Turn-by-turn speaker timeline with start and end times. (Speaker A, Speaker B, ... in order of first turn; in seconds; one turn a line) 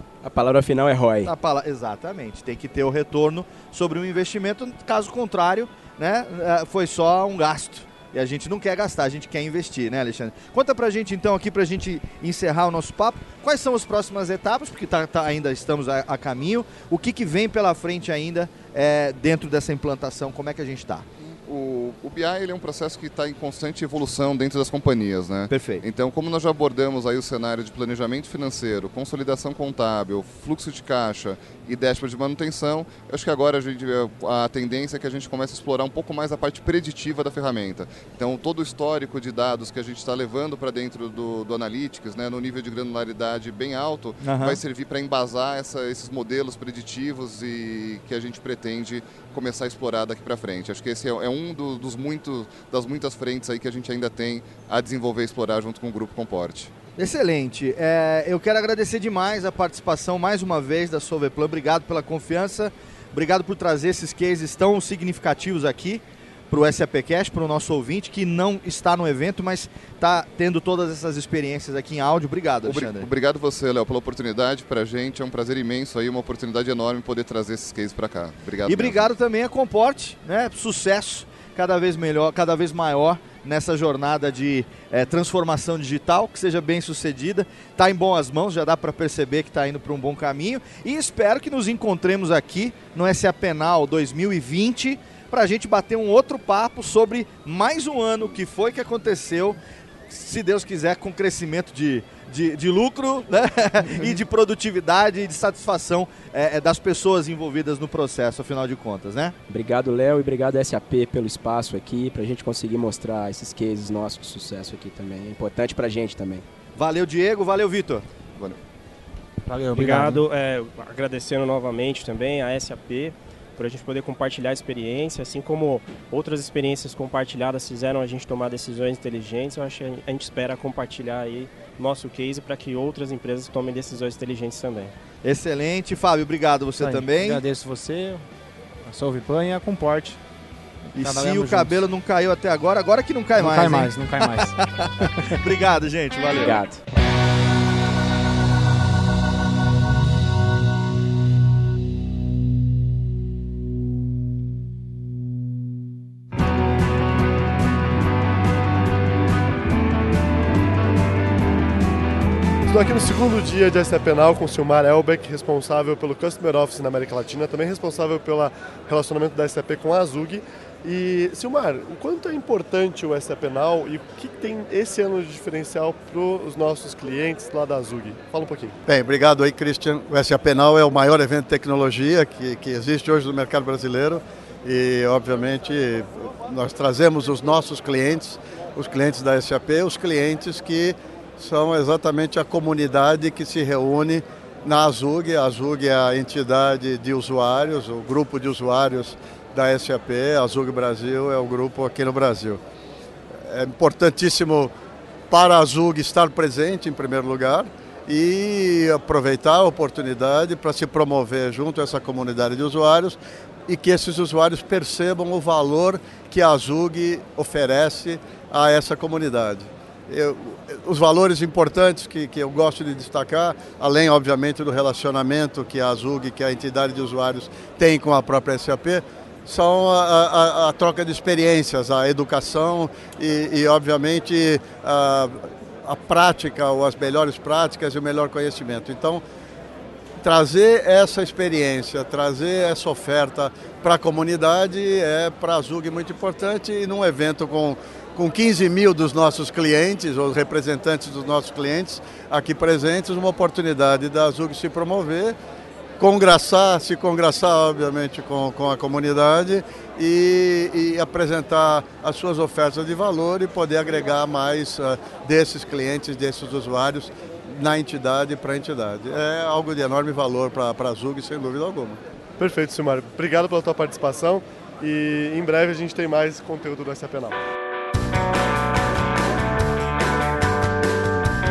Speaker A: 0.2-1.3
Speaker B: 1.2-21.1
Speaker C: 21.4-56.7
Speaker B: 25.5-25.8
Speaker B: 44.2-44.6
Speaker B: 57.0-73.1
Speaker C: 72.6-79.1
Speaker B: 78.7-99.6
Speaker B: 100.1-109.3
Speaker A: 109.5-116.5
Speaker B: 116.8-118.1
Speaker D: 119.5-120.2
Speaker E: 119.7-134.9
Speaker B: 135.2-137.4
Speaker D: 136.8-138.3
Speaker D: 138.8-140.2
Speaker D: 140.9-141.8
Speaker B: 140.9-146.6
Speaker D: 143.4-145.4
Speaker D: 146.4-146.8
Speaker F: 162.7-178.8
Speaker G: 178.9-202.6
Speaker G: 203.4-204.7
Speaker G: 205.3-239.2
Speaker G: 240.2-255.4
Speaker G: 256.0-272.0
Speaker F: 272.4-277.4